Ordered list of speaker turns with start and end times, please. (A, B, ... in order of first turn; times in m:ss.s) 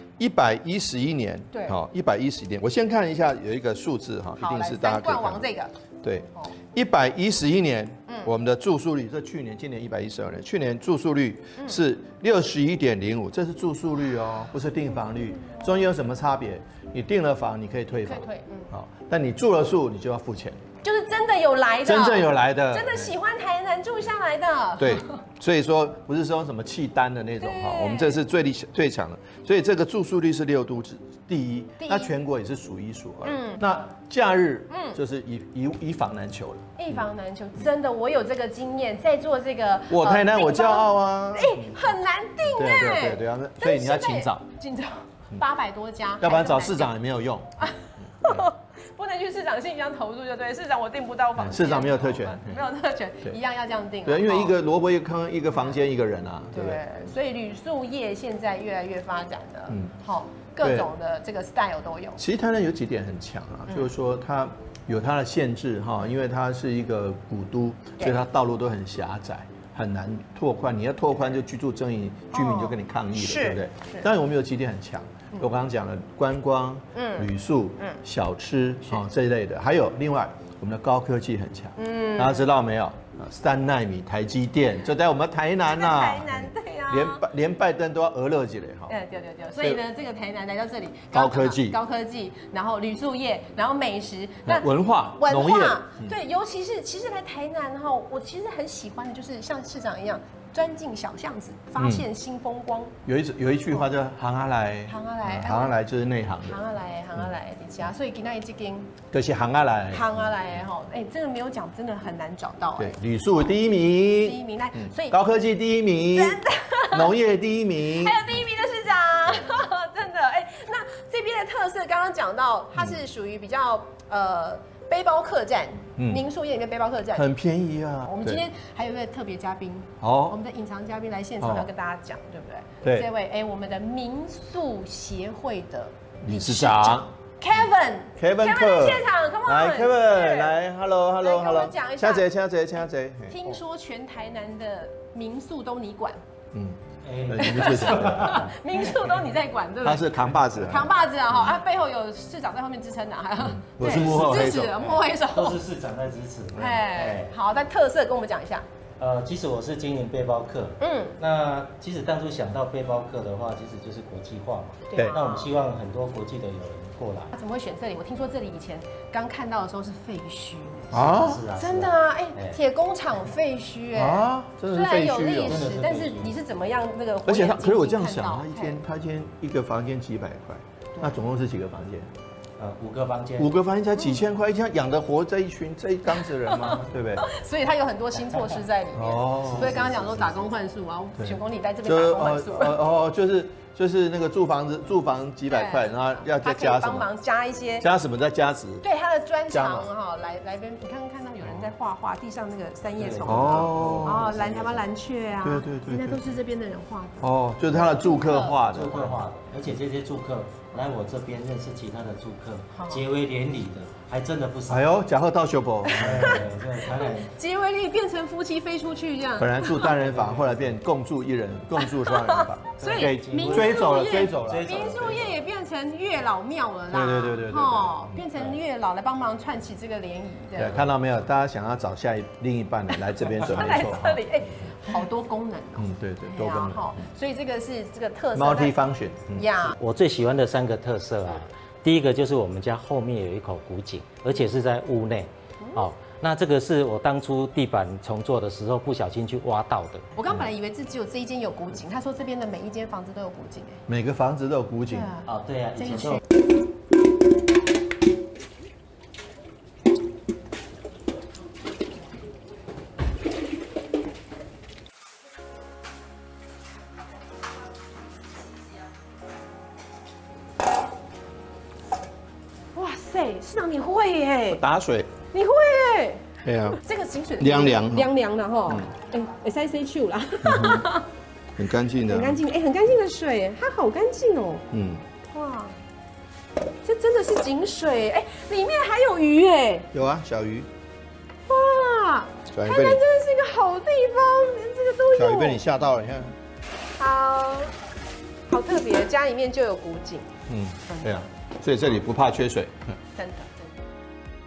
0:00.2-0:05.4 A
0:01.5-0:01.8 B
0:04.4-0:05.7 B
0:06.0-0:20.6 A
0:18.0-0:18.7 B
0:20.8-0:25.2 B
0:21.8-0:23.2 A
0:24.8-0:37.0 A
0:27.4-0:28.2 B
0:31.8-0:32.1 B
0:33.2-0:33.6 B
0:34.7-0:35.0 B
0:36.8-0:46.9 B
0:39.9-0:41.8 A
0:42.4-0:44.4 A
0:46.2-0:47.5 A
0:47.6-0:54.6 B
0:48.2-0:48.5 A
0:51.4-0:52.6 A
0:54.0-0:56.8 A
0:55.5-0:55.8 B
0:56.5-1:02.2 B
1:00.6-1:00.9 A
1:02.2-1:28.9 A
1:12.3-1:14.1 B
1:16.9-1:18.0 B
1:21.8-1:22.5 B
1:25.6-1:27.2 B
1:28.9-1:42.9 B
1:31.1-1:31.8 A
1:34.5-1:36.2 A
1:41.8-1:42.1 A
1:43.1-1:46.6 A
1:44.9-1:45.8 B
1:46.5-1:48.9 B
1:49.1-1:50.1 A
1:49.9-1:53.0 B
1:52.8-1:58.2 A
1:54.2-1:55.2 B
1:56.2-1:57.1 B
1:57.9-2:07.3 B
2:06.0-2:06.2 A
2:07.2-2:08.4 A
2:08.1-2:20.6 B
2:10.0-2:10.4 A
2:11.4-2:11.7 A
2:12.8-2:13.1 A
2:16.2-2:17.1 A
2:18.2-2:23.6 A
2:21.2-2:22.2 B
2:23.3-2:26.2 B
2:26.5-2:28.4 A
2:27.0-2:29.1 C
2:27.4-2:35.6 B
2:29.8-2:30.9 A
2:33.4-2:34.8 A
2:33.8-2:37.3 C
2:36.6-2:38.6 B
2:39.0-2:47.3 C
2:40.8-2:41.2 B
2:44.9-2:45.5 B
2:47.3-2:58.8 B
2:50.9-2:52.6 C
2:50.9-2:51.4 A
2:54.0-2:55.6 A
2:55.4-2:56.3 C
2:57.2-3:02.1 A
3:01.0-3:01.3 B
3:02.6-3:03.6 C
3:03.4-3:07.3 A
3:06.2-3:12.8 B
3:09.0-3:10.1 A
3:09.4-3:10.5 C
3:11.2-3:17.1 A
3:15.5-3:17.9 B
3:17.8-3:18.8 A
3:18.8-3:28.6 B
3:19.5-3:19.9 A
3:23.0-3:24.8 C
3:23.2-3:24.3 A
3:25.4-3:26.2 A
3:27.2-3:29.2 A
3:28.6-3:34.9 C
3:32.7-3:33.0 B
3:34.7-3:36.4 A
3:35.9-3:36.4 B
3:36.0-3:37.3 C
3:37.0-3:39.8 B
3:39.4-3:45.2 A
3:39.8-3:40.8 C
3:42.1-3:50.9 B
3:42.8-3:45.4 C
3:46.9-3:48.2 A
3:50.6-3:54.7 A
3:53.4-3:58.8 B
3:55.8-3:57.0 A
3:58.4-3:59.5 A
3:59.4-3:59.8 B
3:59.8-4:10.1 C
4:05.6-4:05.9 B
4:10.2-4:13.8 B
4:13.9-4:15.2 A
4:14.9-4:15.3 B
4:15.3-4:16.2 C
4:15.8-4:16.2 B
4:32.8-4:34.6 B
4:34.5-4:35.1 A
4:35.3-4:41.1 B
4:36.4-4:36.8 A
4:37.4-4:38.1 A
4:40.4-4:40.9 A
4:41.6-4:42.4 A
4:42.1-4:44.6 B
4:44.7-4:45.0 A
4:45.3-4:45.8 B
4:46.8-4:49.9 B
4:49.9-4:50.7 A
4:51.5-4:55.6 B
4:52.5-4:53.0 A
4:55.1-4:56.4 A
4:57.0-4:57.7 B
4:58.5-5:00.3 B
5:00.5-5:03.0 A
5:00.9-5:01.3 B
5:03.2-5:03.8 B